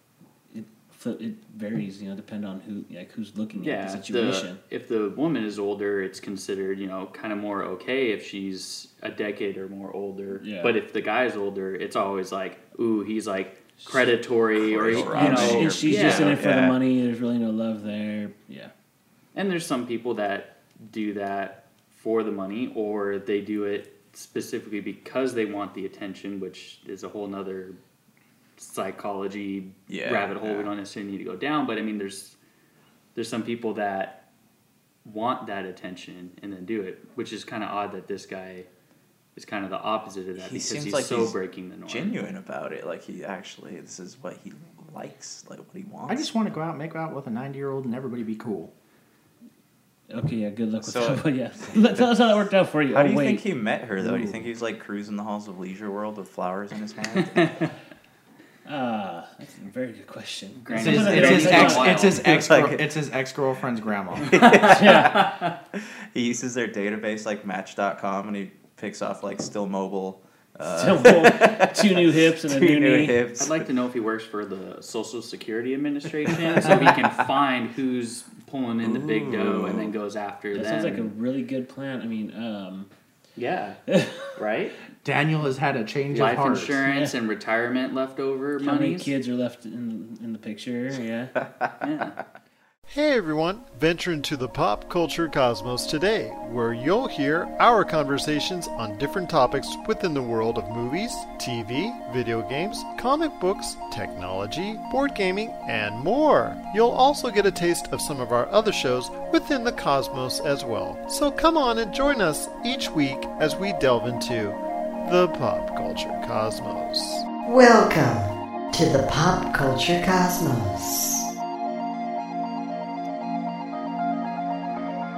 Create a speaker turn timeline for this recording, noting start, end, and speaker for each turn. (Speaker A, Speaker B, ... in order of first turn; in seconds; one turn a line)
Speaker A: 0.5-4.6
Speaker B: 3.6-16.4
Speaker A: 10.4-10.8
Speaker C: 14.5-16.8
Speaker A: 15.1-18.7
Speaker B: 19.3-27.8
Speaker B: 28.6-32.4
Speaker C: 29.9-30.7
Speaker B: 33.1-34.2
Speaker B: 35.0-38.7
Speaker B: 39.4-42.2
Speaker C: 40.4-46.3
Speaker D: 46.1-48.7
Speaker A: 50.1-53.4
Speaker C: 50.8-52.3
Speaker C: 52.9-57.6
Speaker D: 54.0-54.5
Speaker B: 57.2-57.6
Speaker A: 58.6-62.0
Speaker B: 60.6-62.2
Speaker D: 60.8-64.3
Speaker C: 61.0-63.0
Speaker C: 64.2-73.7
Speaker B: 64.4-65.4
Speaker A: 64.5-65.3
Speaker A: 70.6-73.2
Speaker B: 73.4-81.1
Speaker C: 76.5-77.1
Speaker C: 78.8-79.9
Speaker A: 80.5-82.9
Speaker B: 83.3-83.8
Speaker A: 83.9-84.2
Speaker B: 84.3-84.8
Speaker D: 85.0-86.8
Speaker B: 86.1-89.1
Speaker A: 86.9-87.1
Speaker A: 88.6-91.3
Speaker B: 91.8-92.2
Speaker E: 92.9-117.2
Speaker F: 117.5-121.2